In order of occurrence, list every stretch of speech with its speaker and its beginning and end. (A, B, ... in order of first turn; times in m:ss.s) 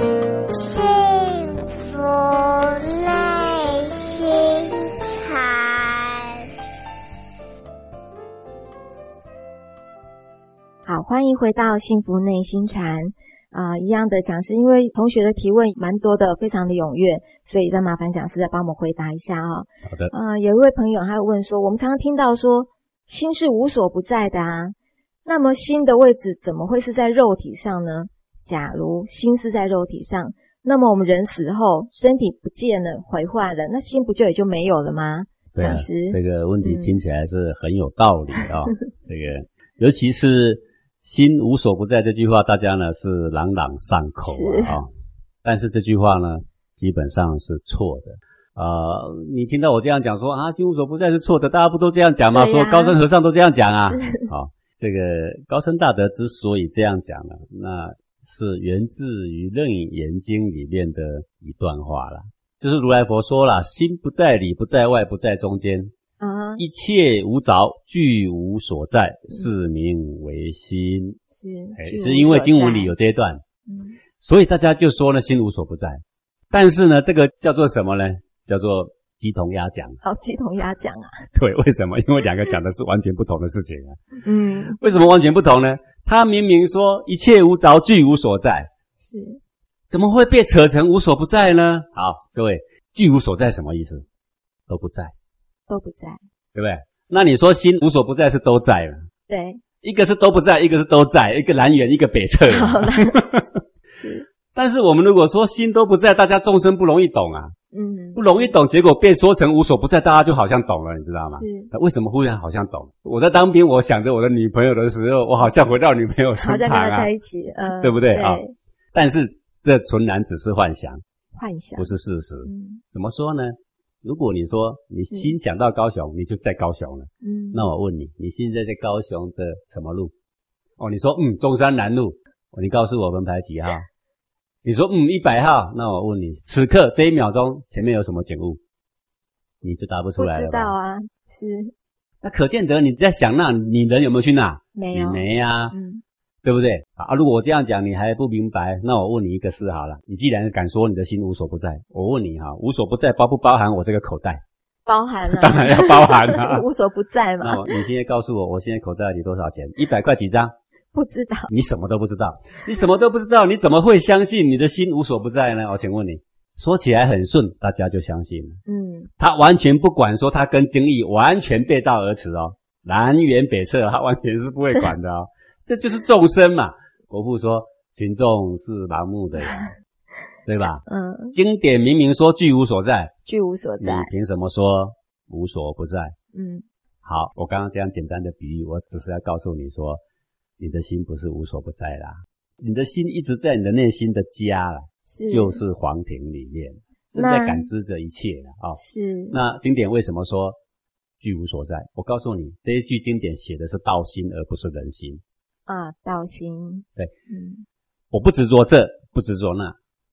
0:00.5-0:06.4 A
0:10.9-0:24.7 B
0:19.9-0:20.1 C
0:25.2-0:37.0 B
0:35.5-0:44.9 C
0:44.2-0:44.8 B
0:45.4-1:05.9 C
0:52.3-0:53.0 B
0:53.8-0:54.3 B
1:06.2-1:06.6 B
1:06.6-1:11.2 C
1:11.3-1:12.9 B
1:11.8-1:13.4 C
1:13.7-1:14.0 B
1:14.2-1:20.0 C
1:20.0-1:21.2 B
1:21.3-1:24.0 C
1:24.2-1:24.8 B
1:24.7-1:28.7 C
1:29.0-1:29.4 B
1:29.9-1:34.0 C
1:34.7-1:35.1 C
1:35.7-1:36.2 B
1:36.5-1:39.1 C
1:39.3-1:39.6 B
1:39.8-1:43.5 C
1:42.5-1:43.2 B
1:44.0-1:44.2 B
1:44.5-1:47.5 C
1:47.7-1:48.6 B
1:48.2-1:57.1 C
1:51.3-1:51.7 B
1:56.4-1:58.5 B
1:57.7-1:58.4 C
1:58.9-2:01.0 C
2:01.3-2:01.9 B
2:01.8-2:10.1 C
2:02.4-2:02.8 B
2:07.2-2:07.7 B
2:10.8-2:13.9 C
2:14.6-2:18.6 C
2:19.6-2:20.7 C
2:20.2-2:21.7 B
2:22.2-2:25.7 C
2:24.7-2:26.0 B
2:26.4-2:34.4 C
2:34.9-2:37.7 B
2:35.3-2:36.7 C
2:37.4-2:40.5 C
2:40.9-2:41.5 B
2:41.5-2:48.6 C
2:48.7-2:49.1 B
2:49.2-2:59.7 C
3:00.4-3:03.1 C
3:00.9-3:01.4 B
3:03.2-3:04.1 B
3:03.8-3:06.1 C
3:06.3-3:06.6 B
3:07.0-3:10.0 C
3:10.6-3:18.8 C
3:15.0-3:15.6 B
3:17.2-3:17.7 B
3:18.8-3:19.4 B
3:19.3-3:20.6 C
3:21.2-3:25.2 C
3:25.7-3:27.6 B
3:28.1-3:29.8 C